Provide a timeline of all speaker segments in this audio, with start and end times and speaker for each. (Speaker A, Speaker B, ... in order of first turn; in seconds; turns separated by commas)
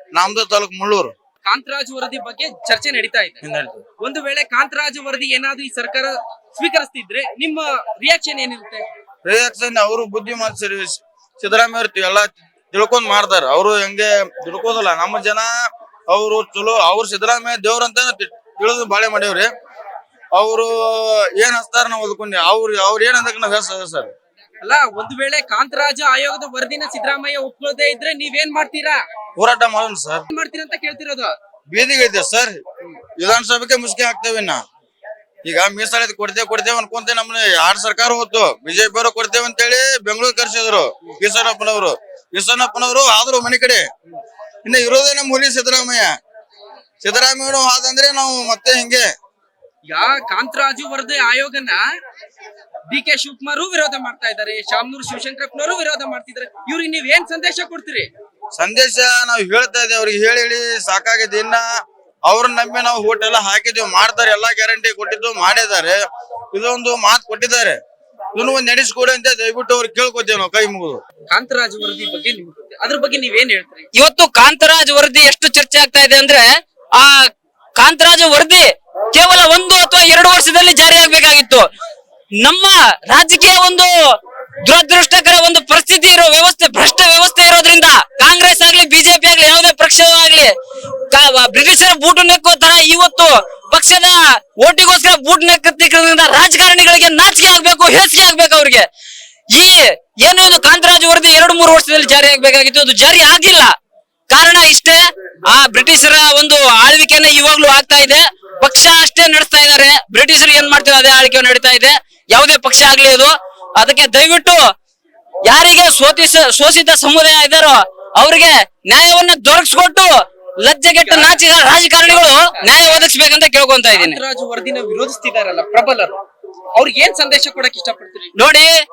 Speaker A: 0.1-1.1, Speaker B: 1.4-3.4, Speaker A: 3.4-3.8, Speaker B: 4.0-8.9, Speaker A: 9.2-15.5, Speaker A: 16.1-19.5, Speaker A: 20.3-24.1, Speaker B: 24.6-29.0, Speaker A: 29.4-30.2, Speaker B: 30.3-31.3, Speaker A: 31.7-32.6, Speaker A: 33.2-34.6, Speaker A: 35.4-43.9, Speaker A: 44.6-46.1, Speaker A: 47.0-49.1, Speaker B: 49.9-51.8, Speaker B: 52.9-58.1, Speaker A: 58.5-61.6, Speaker A: 62.2-66.0, Speaker A: 66.5-67.8, Speaker A: 68.3-71.0, Speaker B: 71.3-73.9, Speaker C: 73.9-81.7, Speaker C: 82.4-90.5, Speaker C: 91.1-98.9, Speaker C: 99.5-103.7, Speaker C: 104.3-105.0, Speaker C: 105.5-114.6, Speaker C: 115.5-120.1, Speaker C: 120.6-124.2, Speaker B: 121.1-121.4, Speaker B: 122.1-123.1, Speaker B: 123.9-126.2, Speaker B: 126.8-128.3, Speaker C: 128.4-128.8